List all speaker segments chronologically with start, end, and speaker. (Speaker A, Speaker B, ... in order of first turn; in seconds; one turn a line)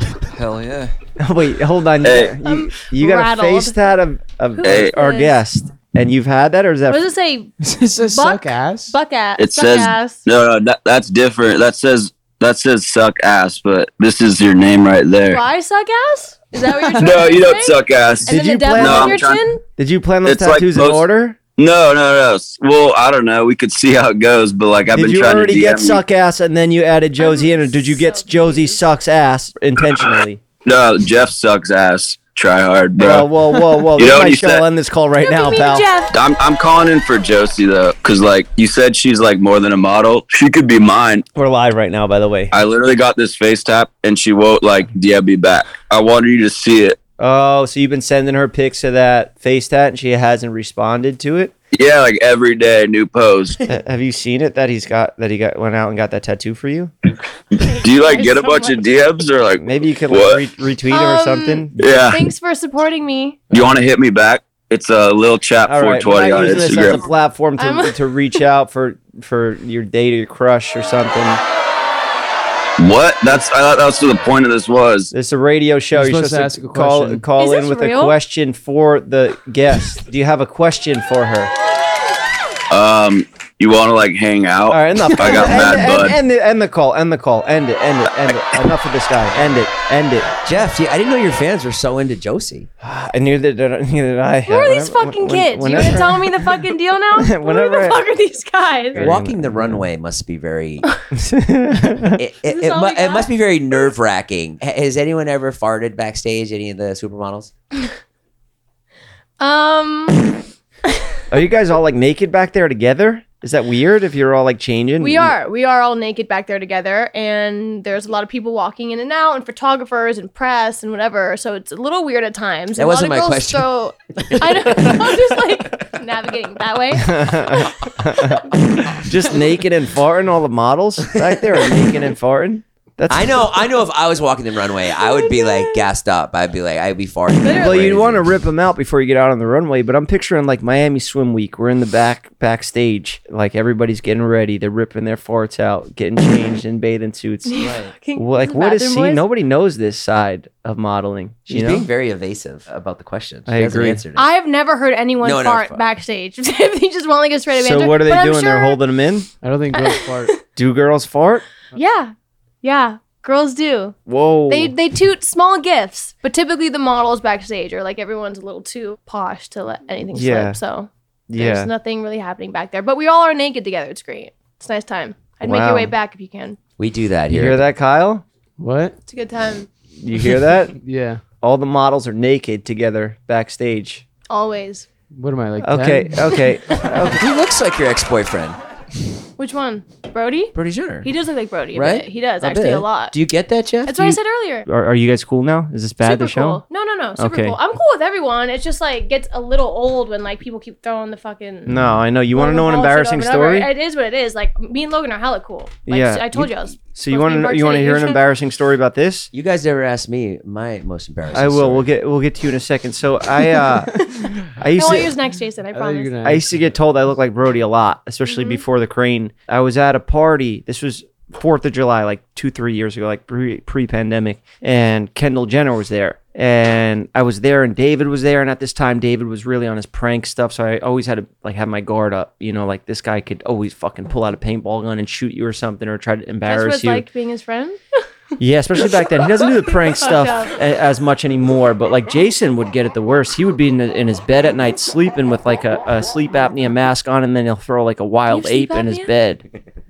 Speaker A: 0.3-0.9
Speaker B: 1.2-7.1
Speaker A: 2.0-2.4
Speaker C: 2.4-3.8
Speaker C: 4.5-5.4
Speaker A: 4.6-4.9
Speaker C: 6.9-7.5
Speaker D: 7.6-9.0
Speaker C: 8.0-10.2
Speaker A: 9.4-15.4
Speaker C: 15.3-19.6
Speaker A: 17.0-19.4
Speaker B: 18.3-19.2
Speaker B: 19.8-21.4
Speaker A: 20.2-21.1
Speaker A: 21.6-26.0
Speaker B: 24.9-30.4
Speaker C: 27.2-28.8
Speaker A: 30.6-33.3
Speaker B: 33.0-35.9
Speaker A: 34.0-34.6
Speaker C: 35.2-36.1
Speaker A: 36.1-41.2
Speaker B: 41.4-42.5
Speaker A: 42.5-47.0
Speaker B: 47.2-51.5
Speaker A: 51.7-53.6
Speaker B: 53.7-56.9
Speaker A: 57.6-60.4
Speaker C: 57.6-58.9
Speaker B: 59.6-61.8
Speaker C: 60.9-63.4
Speaker A: 61.8-62.3
Speaker A: 63.5-67.1
Speaker B: 65.7-71.4
Speaker C: 67.6-68.4
Speaker A: 72.8-75.1
Speaker B: 75.1-81.5
Speaker D: 75.9-77.2
Speaker C: 77.4-78.2
Speaker A: 82.7-86.2
Speaker B: 84.7-90.3
Speaker E: 90.4-92.7
Speaker B: 92.8-96.6
Speaker C: 94.5-99.1
Speaker B: 97.2-98.0
Speaker B: 98.9-99.8
Speaker E: 99.0-100.9
Speaker B: 101.1-102.2
Speaker E: 102.1-107.5
Speaker C: 102.5-103.8
Speaker C: 109.4-110.3
Speaker B: 111.3-115.3
Speaker C: 115.0-127.7
Speaker E: 122.8-125.2
Speaker B: 127.0-133.5
Speaker E: 133.1-138.4
Speaker C: 135.0-135.8
Speaker C: 137.4-137.7
Speaker B: 137.6-151.9
Speaker C: 147.5-149.2
Speaker E: 147.6-147.9
Speaker E: 151.5-154.3
Speaker B: 153.5-154.0
Speaker C: 154.2-158.8
Speaker E: 155.2-155.8
Speaker B: 157.5-159.3
Speaker D: 159.4-160.3
Speaker C: 159.7-160.4
Speaker B: 160.6-161.4
Speaker C: 161.7-164.0
Speaker B: 164.1-164.7
Speaker C: 164.5-176.6
Speaker B: 170.1-170.6
Speaker B: 171.3-171.7
Speaker B: 175.4-175.9
Speaker E: 176.8-177.6
Speaker B: 177.3-178.2
Speaker D: 178.6-179.0
Speaker C: 179.1-179.7
Speaker B: 180.0-180.8
Speaker D: 180.8-181.2
Speaker B: 181.4-184.0
Speaker C: 184.3-184.9
Speaker D: 185.1-186.3
Speaker B: 185.6-187.2
Speaker E: 187.0-188.6
Speaker C: 189.4-193.2
Speaker E: 190.5-191.1
Speaker E: 191.7-194.1
Speaker C: 193.8-194.7
Speaker B: 194.7-196.6
Speaker C: 196.0-201.8
Speaker B: 197.2-197.6
Speaker B: 201.7-203.7
Speaker C: 202.3-208.2
Speaker B: 205.9-209.3
Speaker E: 209.3-211.9
Speaker B: 211.3-215.1
Speaker C: 214.0-216.2
Speaker D: 215.7-216.5
Speaker B: 216.2-237.1
Speaker C: 218.3-218.6
Speaker C: 236.5-237.8
Speaker B: 238.4-249.4
Speaker C: 239.0-239.4
Speaker C: 240.0-240.6
Speaker C: 248.3-249.1